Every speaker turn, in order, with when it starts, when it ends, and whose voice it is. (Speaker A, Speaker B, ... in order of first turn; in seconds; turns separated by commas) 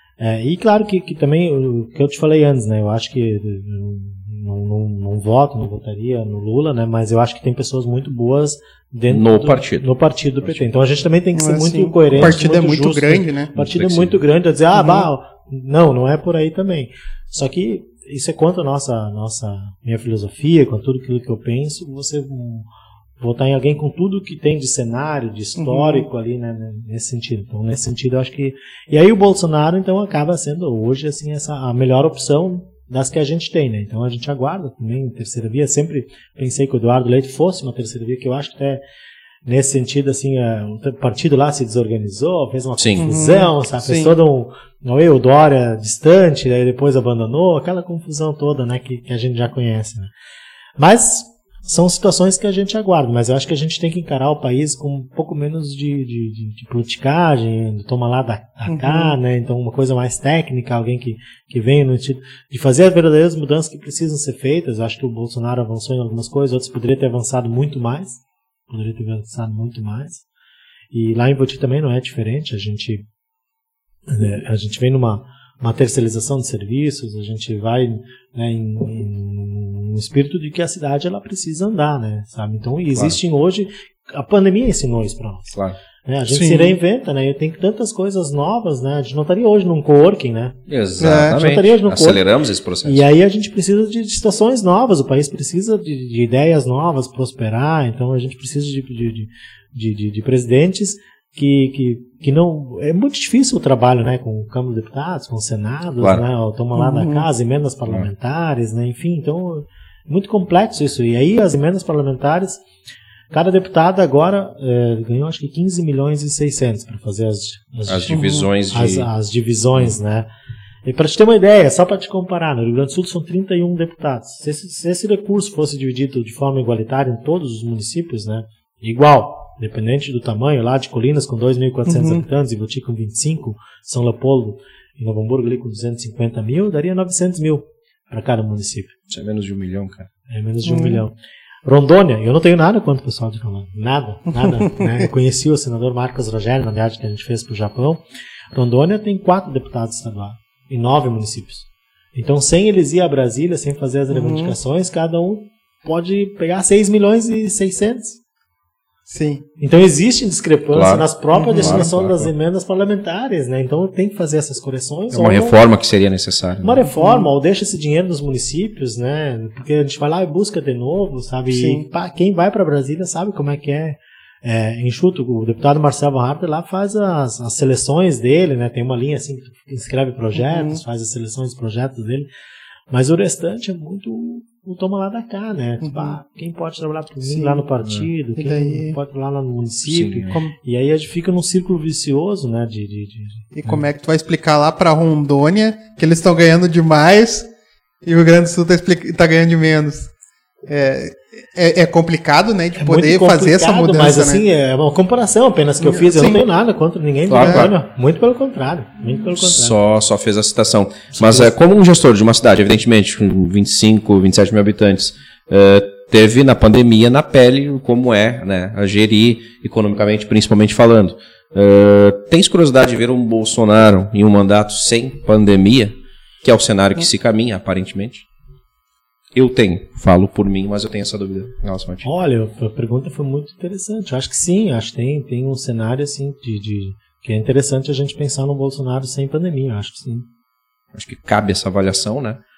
Speaker A: 0.2-22.7, Speaker B: 9.1-9.9, Speaker C: 11.3-13.5, Speaker B: 13.6-14.2, Speaker C: 14.7-15.1, Speaker A: 23.2-38.8, Speaker C: 25.6-26.1, Speaker A: 39.5-50.1, Speaker B: 42.8-43.1, Speaker C: 43.0-44.1, Speaker A: 50.8-70.2, Speaker C: 58.7-59.1, Speaker A: 70.9-73.1, Speaker A: 74.1-90.6, Speaker C: 86.3-86.8, Speaker B: 90.7-93.0, Speaker C: 91.0-91.4, Speaker A: 91.2-92.2, Speaker A: 92.8-112.6, Speaker C: 106.7-107.2, Speaker A: 113.3-120.3, Speaker B: 117.9-119.1, Speaker C: 118.1-118.5, Speaker A: 120.8-138.9, Speaker C: 131.9-132.2, Speaker B: 139.1-140.1, Speaker A: 140.3-141.1, Speaker C: 140.7-141.0, Speaker A: 141.7-148.0, Speaker A: 148.5-158.2, Speaker C: 154.1-154.6, Speaker C: 159.1-159.4, Speaker A: 159.6-165.6, Speaker B: 160.7-162.3, Speaker C: 161.3-161.9, Speaker B: 165.1-166.8, Speaker A: 166.6-182.3, Speaker C: 166.9-167.3, Speaker C: 171.5-171.8, Speaker C: 180.3-180.8, Speaker A: 182.9-193.8, Speaker C: 185.8-186.2, Speaker C: 187.2-187.6, Speaker B: 187.8-188.1, Speaker C: 188.4-189.0, Speaker B: 189.9-190.4, Speaker C: 193.5-197.5, Speaker C: 198.0-200.1, Speaker C: 200.7-204.4, Speaker A: 202.8-209.8, Speaker C: 205.8-206.4, Speaker B: 207.3-207.7, Speaker C: 207.3-207.7, Speaker B: 209.4-228.2, Speaker A: 211.1-211.5, Speaker B: 229.3-232.1, Speaker A: 232.0-240.3, Speaker B: 240.9-242.4